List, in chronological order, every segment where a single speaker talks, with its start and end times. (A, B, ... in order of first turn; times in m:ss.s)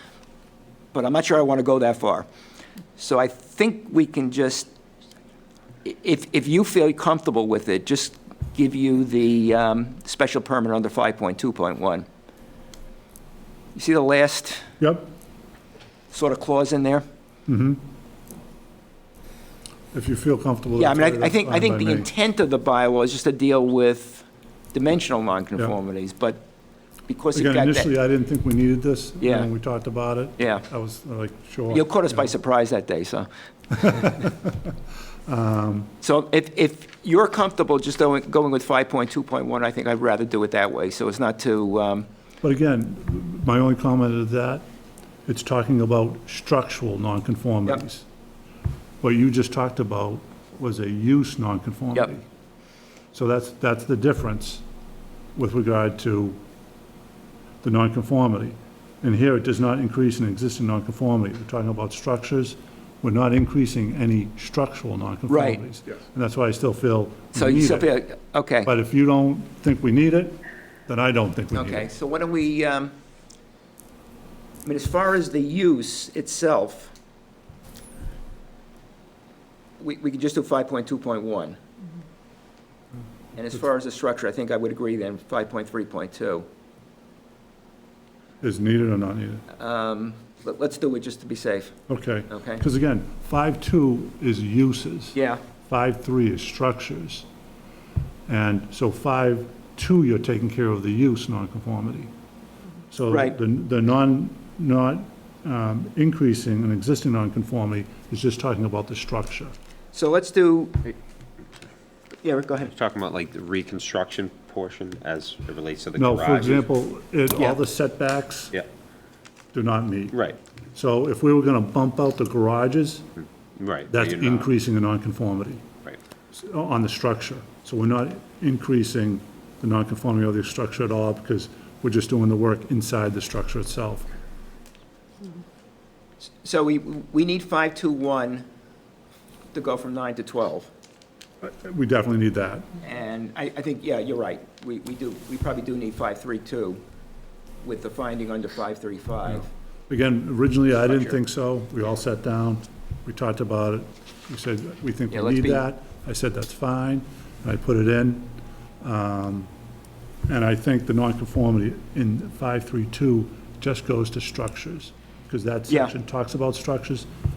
0:00.9-0:02.3 A
0:03.0-0:04.7 A
0:05.8-0:12.1 A
0:13.8-0:14.7 A
0:14.8-0:15.1 B
0:16.1-0:17.0 A
0:17.5-0:17.8 B
0:19.9-0:22.1 B
0:20.8-0:26.4 A
0:27.1-0:27.9 A
0:27.3-0:32.3 B
0:29.2-0:29.5 A
0:30.4-0:30.7 A
0:31.7-0:34.3 A
0:33.9-0:34.7 B
0:35.3-0:35.9 B
0:36.0-0:42.1 A
0:42.4-0:44.6 B
0:45.3-0:48.1 B
0:49.0-0:52.2 B
0:53.1-0:54.6 B
0:55.4-0:56.4 B
0:57.6-1:08.0 B
1:05.3-1:05.6 A
1:07.3-1:08.7 A
1:08.6-1:11.9 B
1:11.5-1:12.9 A
1:14.6-1:16.9 A
1:19.8-1:21.6 A
1:23.4-1:26.5 A
1:28.4-1:29.5 B
1:29.5-1:31.8 A
1:31.9-1:37.3 B
1:32.3-1:32.6 A
1:35.1-1:35.4 A
1:38.3-1:42.1 B
1:42.9-1:49.5 B
1:43.1-1:43.4 A
1:49.9-1:50.9 A
1:52.2-1:52.7 A
1:52.6-1:56.7 C
1:56.0-1:58.6 B
1:59.5-2:00.2 B
2:00.1-2:00.4 C
2:00.7-2:03.1 B
2:03.6-2:04.5 C
2:03.9-2:05.6 B
2:06.3-2:14.1 B
2:16.4-2:18.5 A
2:19.5-2:20.7 A
2:21.4-2:22.7 B
2:22.8-2:26.8 A
2:27.6-2:29.5 A
2:29.3-2:39.5 B
2:30.8-2:31.2 A
2:35.1-2:35.6 A
2:40.3-2:47.1 B